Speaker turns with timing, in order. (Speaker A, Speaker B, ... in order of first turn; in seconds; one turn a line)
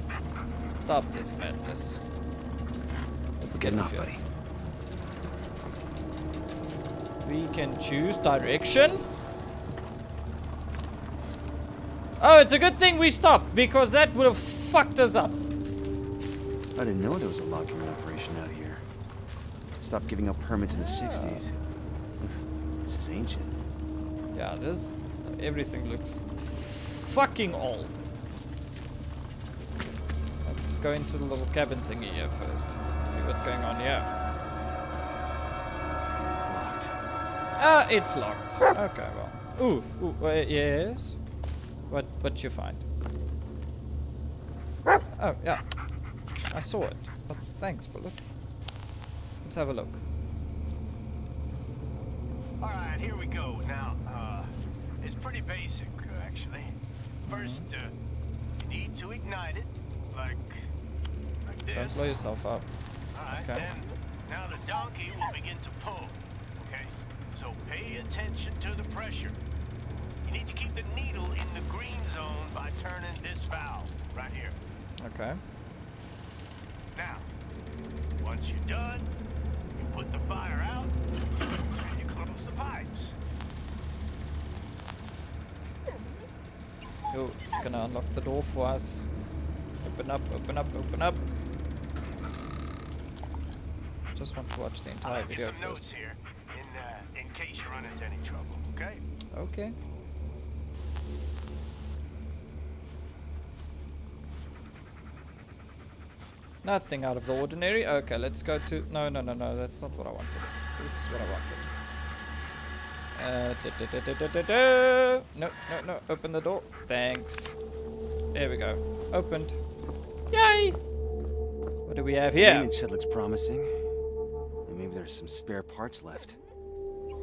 Speaker A: 0.8-2.0
Speaker A: 3.4-4.1
Speaker B: 3.6-4.2
Speaker A: 7.2-9.0
Speaker A: 12.2-15.4
Speaker B: 16.8-18.9
Speaker B: 19.8-21.5
Speaker A: 20.7-21.4
Speaker B: 22.2-23.6
Speaker A: 24.3-28.0
Speaker A: 30.4-34.1
Speaker B: 36.5-37.0
Speaker A: 37.6-41.2
Speaker A: 41.9-42.9
Speaker A: 45.2-45.6
Speaker A: 46.5-48.2
Speaker A: 49.4-50.0
Speaker C: 52.6-54.5
Speaker C: 55.0-56.7
Speaker A: 57.3-57.7
Speaker C: 57.3-57.9
Speaker C: 58.6-60.6
Speaker C: 61.5-62.1
Speaker A: 61.7-62.7
Speaker C: 63.1-69.4
Speaker A: 63.3-63.7
Speaker C: 70.2-74.5
Speaker A: 75.0-75.4
Speaker C: 77.0-77.2
Speaker C: 78.2-79.1
Speaker C: 79.8-81.0
Speaker C: 81.6-83.1
Speaker A: 87.1-89.1
Speaker A: 89.8-91.2
Speaker A: 94.2-95.9
Speaker C: 95.0-99.0
Speaker A: 99.3-99.8
Speaker A: 106.6-111.7
Speaker A: 113.2-117.6
Speaker A: 118.3-119.6
Speaker A: 120.3-120.8
Speaker A: 121.9-122.7
Speaker B: 122.3-123.8
Speaker B: 124.7-126.4